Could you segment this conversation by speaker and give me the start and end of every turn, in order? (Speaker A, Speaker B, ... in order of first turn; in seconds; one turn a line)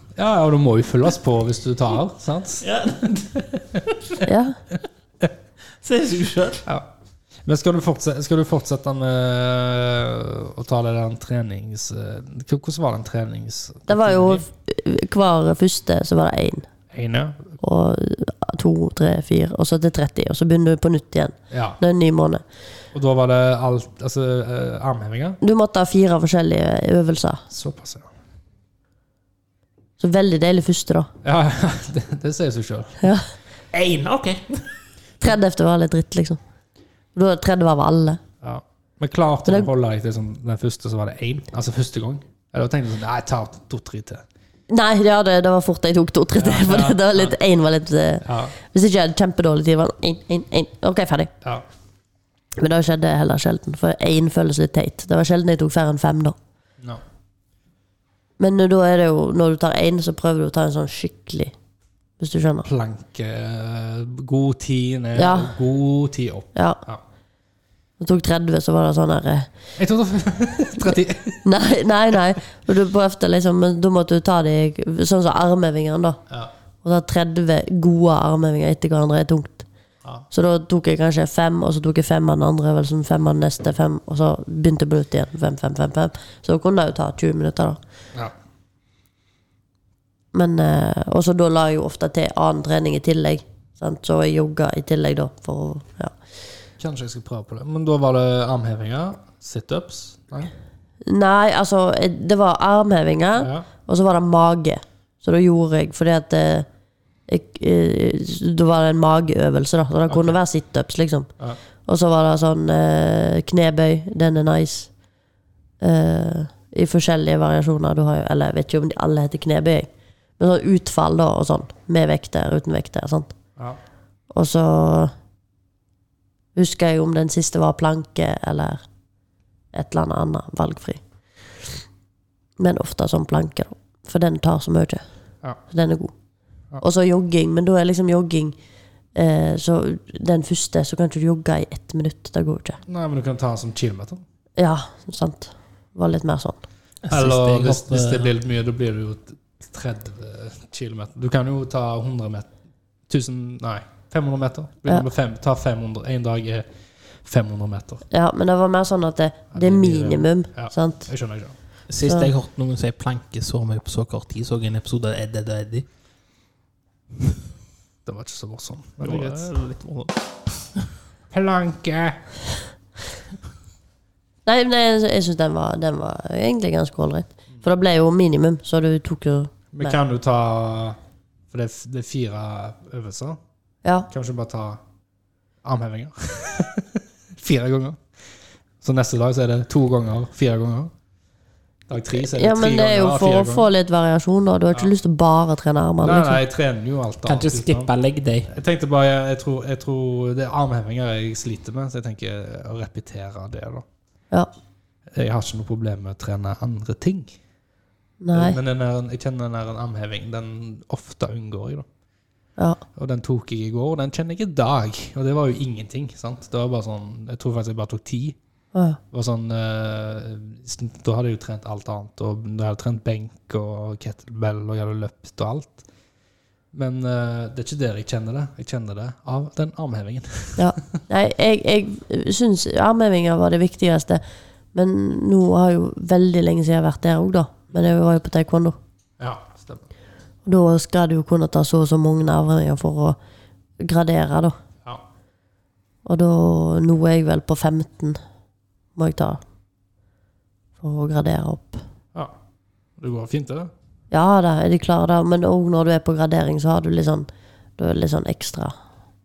Speaker A: 0.1-3.1
Speaker B: 2.6-4.2
Speaker C: 4.2-4.6
Speaker B: 5.8-6.6
Speaker A: 7.4-14.5
Speaker C: 13.9-16.7
Speaker A: 16.9-17.6
Speaker C: 17.6-22.4
Speaker A: 21.5-21.8
Speaker A: 22.9-25.4
Speaker C: 25.4-27.4
Speaker A: 27.5-28.1
Speaker C: 30.0-31.1
Speaker A: 31.2-33.1
Speaker C: 33.0-33.3
Speaker B: 33.7-34.7
Speaker C: 35.2-36.4
Speaker C: 37.1-38.2
Speaker A: 38.4-44.2
Speaker C: 44.7-51.3
Speaker A: 46.4-47.4
Speaker A: 48.2-48.5
Speaker C: 52.6-56.4
Speaker C: 58.4-61.5
Speaker C: 62.2-62.7
Speaker A: 62.6-67.0
Speaker C: 65.2-65.5
Speaker C: 66.5-66.8
Speaker C: 68.0-69.5
Speaker A: 69.8-71.4
Speaker C: 71.4-76.2
Speaker C: 76.8-79.7
Speaker C: 80.3-87.8
Speaker C: 90.3-96.2
Speaker A: 96.8-100.5
Speaker C: 101.0-106.7
Speaker A: 103.4-103.7
Speaker C: 107.3-111.3
Speaker A: 110.1-110.4
Speaker C: 111.8-114.9
Speaker C: 115.8-119.9
Speaker C: 120.4-123.3
Speaker C: 124.3-125.1
Speaker C: 126.5-128.8
Speaker C: 129.7-131.0
Speaker C: 132.6-135.0
Speaker C: 135.7-136.1
Speaker C: 136.8-138.6
Speaker C: 139.2-142.8
Speaker A: 142.9-144.2
Speaker C: 144.6-146.6
Speaker B: 147.1-148.3
Speaker A: 147.1-152.5
Speaker A: 153.1-156.7
Speaker A: 157.2-158.1
Speaker C: 158.1-161.1
Speaker A: 159.5-161.6
Speaker B: 161.9-165.8
Speaker C: 162.1-162.3
Speaker A: 168.1-169.5
Speaker B: 169.0-170.9
Speaker A: 171.3-172.2
Speaker C: 174.5-180.0
Speaker A: 179.7-181.0
Speaker A: 181.5-183.4
Speaker A: 184.1-184.8
Speaker A: 185.6-188.0
Speaker A: 188.8-190.9
Speaker A: 191.9-193.7
Speaker C: 192.2-196.4
Speaker A: 196.0-197.9
Speaker B: 197.3-198.5
Speaker A: 198.5-203.8
Speaker A: 205.1-207.3
Speaker C: 208.2-208.6
Speaker A: 208.3-211.9
Speaker A: 213.0-218.4
Speaker C: 218.7-219.0
Speaker A: 219.1-225.8
Speaker A: 226.7-230.8
Speaker C: 230.6-234.2
Speaker C: 234.7-238.8
Speaker A: 239.2-239.9
Speaker C: 240.5-243.2
Speaker C: 243.8-244.6
Speaker C: 246.1-248.2
Speaker C: 249.0-249.4
Speaker C: 250.8-251.8
Speaker A: 253.0-253.7
Speaker C: 254.1-258.8